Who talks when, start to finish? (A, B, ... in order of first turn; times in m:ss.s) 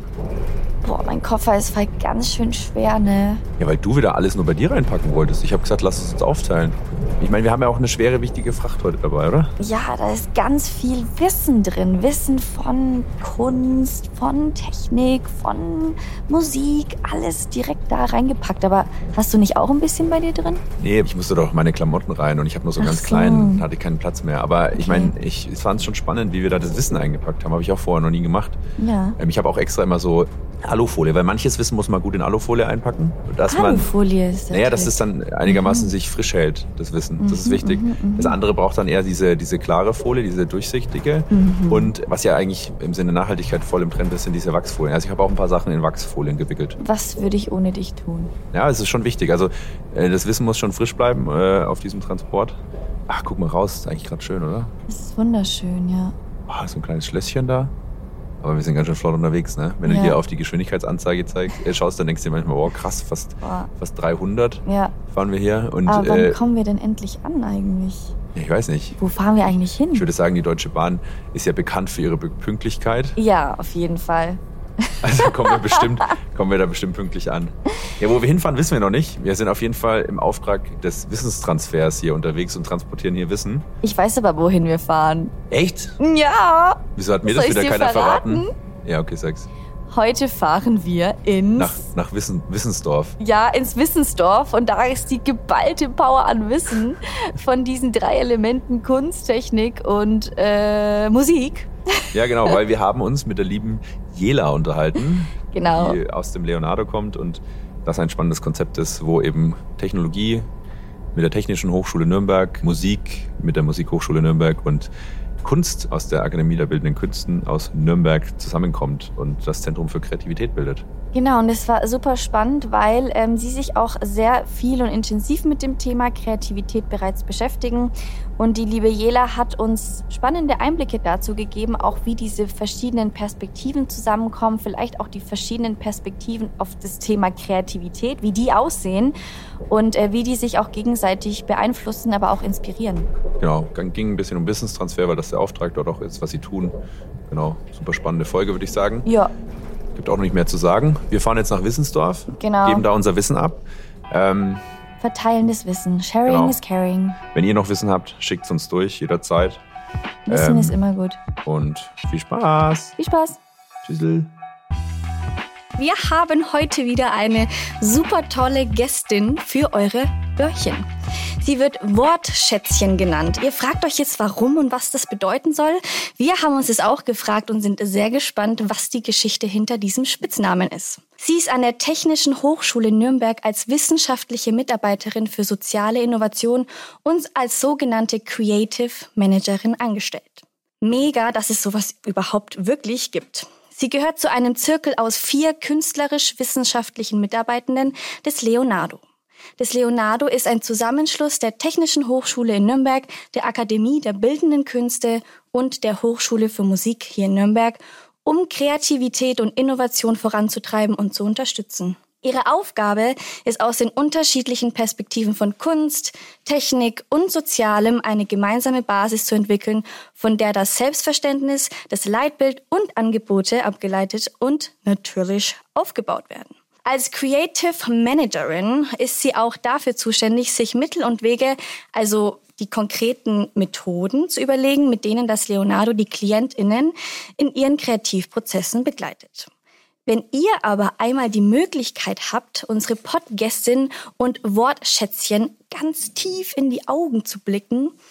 0:00.8-0:03.4 A
0:03.6-0:09.5 B
0:09.6-0:20.6 A
0:20.8-0:28.6 B
0:22.8-0:23.7 A
0:24.8-0:25.1 A
0:28.8-0:29.2 A
0:29.2-0:33.9 B
0:33.5-0:35.9 A
0:34.5-0:46.8 B
0:37.2-0:38.4 A
0:41.3-0:41.9 A
0:46.8-0:48.3 A
0:48.5-0:54.7 B
0:54.9-0:56.1 A
0:56.5-0:57.7 B
0:58.4-1:06.4 B
0:59.8-1:00.2 A
1:03.4-1:03.7 A
1:04.6-1:05.0 A
1:05.9-1:08.2 A
1:08.4-1:09.0 B
1:09.0-1:10.1 A
1:09.9-1:13.2 B
1:13.2-1:16.2 A
1:15.0-1:23.7 B
1:23.8-1:25.3 A
1:25.5-1:26.0 B
1:26.0-1:28.5 A
1:27.0-1:29.5 B
1:29.9-1:31.8 A
1:31.6-1:33.2 B
1:33.2-1:42.1 A
1:42.1-1:50.5 B
1:45.5-1:46.0 A
1:51.1-2:00.8 B
2:01.1-2:19.2 A
2:19.7-2:23.1 A
2:23.4-2:26.7 B
2:27.3-2:29.1 B
2:29.0-2:29.3 A
2:29.9-2:34.6 B
2:32.4-2:32.9 A
2:35.0-2:37.2 A
2:36.3-2:36.6 B
2:37.3-2:39.6 B
2:40.3-2:41.2 A
2:40.3-2:40.8 B
2:41.4-2:43.0 B
2:43.0-2:43.4 A
2:43.8-2:44.3 B
2:45.8-2:50.9 A
2:51.4-3:19.0 A
3:19.6-3:59.5 A
4:00.1-4:08.0 A